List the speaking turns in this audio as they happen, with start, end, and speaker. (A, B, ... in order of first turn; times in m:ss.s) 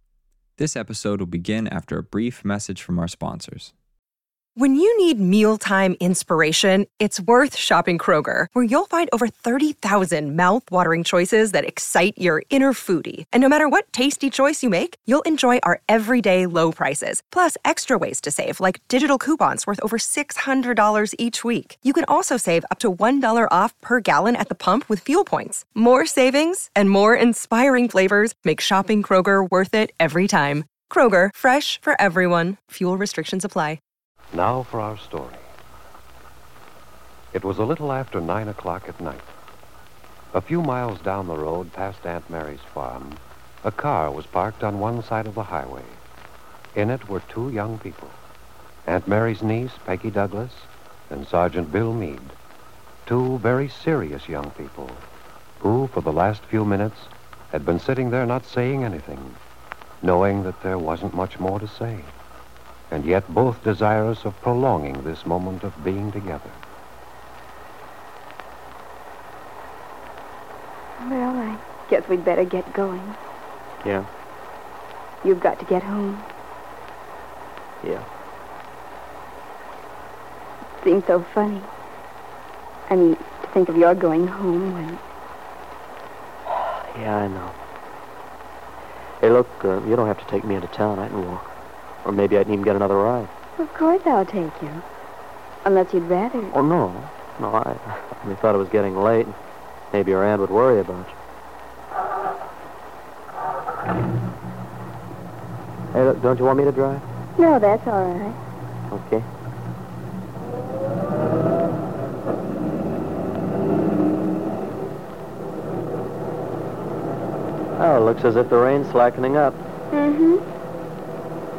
0:00.6-0:03.7 A
0:04.6-0:33.8 B
0:34.3-0:35.5 C
0:37.3-0:39.3 C
0:40.3-0:46.0 C
0:46.8-0:48.2 C
0:48.9-0:52.4 C
0:53.1-0:55.0 C
0:55.6-0:59.4 C
1:00.0-1:02.1 C
1:02.9-1:06.6 C
1:11.0-1:13.2 D
1:15.2-1:16.3 D
1:20.8-1:21.7 D
1:22.9-1:25.0 D
1:26.5-1:27.6 E
1:29.2-1:31.5 E
1:32.0-1:33.3 E
1:33.6-1:34.8 D
1:35.6-1:36.5 D
1:36.5-1:39.4 E
1:39.9-1:41.2 E
1:45.9-1:47.0 E
1:47.4-1:48.4 D
1:48.9-1:49.3 E
1:57.8-1:59.6 E
1:59.9-2:00.4 D